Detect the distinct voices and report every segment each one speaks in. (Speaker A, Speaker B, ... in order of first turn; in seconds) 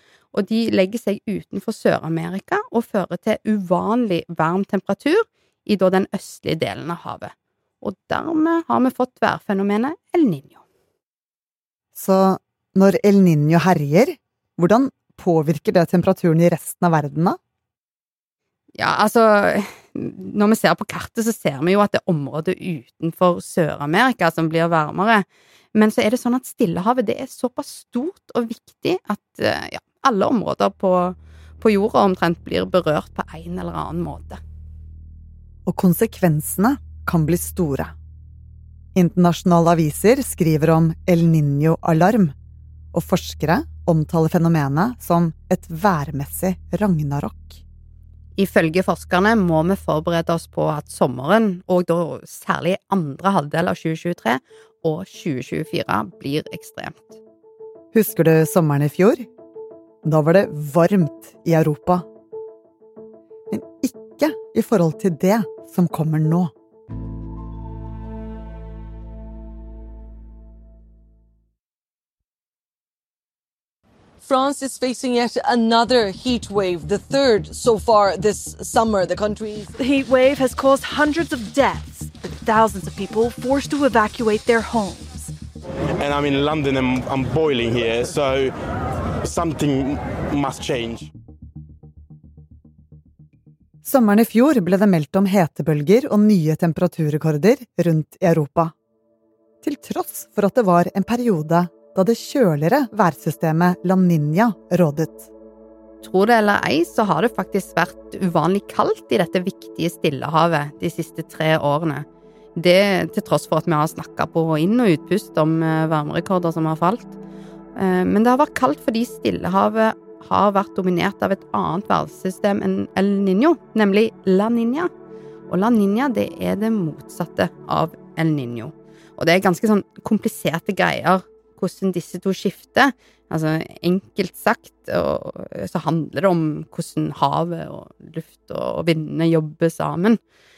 Speaker A: 0.3-10.6, 18.8-34.4, 48.4-57.2, 106.0-117.2, 117.8-124.9, 125.5-140.2
Speaker B: 12.0-17.4, 35.7-37.9, 39.0-42.3, 42.9-47.6, 57.9-59.3, 60.0-62.0, 63.5-66.5, 93.8-98.7, 99.6-105.3
Speaker C: 74.2-79.7
Speaker D: 79.7-85.3
Speaker E: 86.0-88.5, 89.2-91.1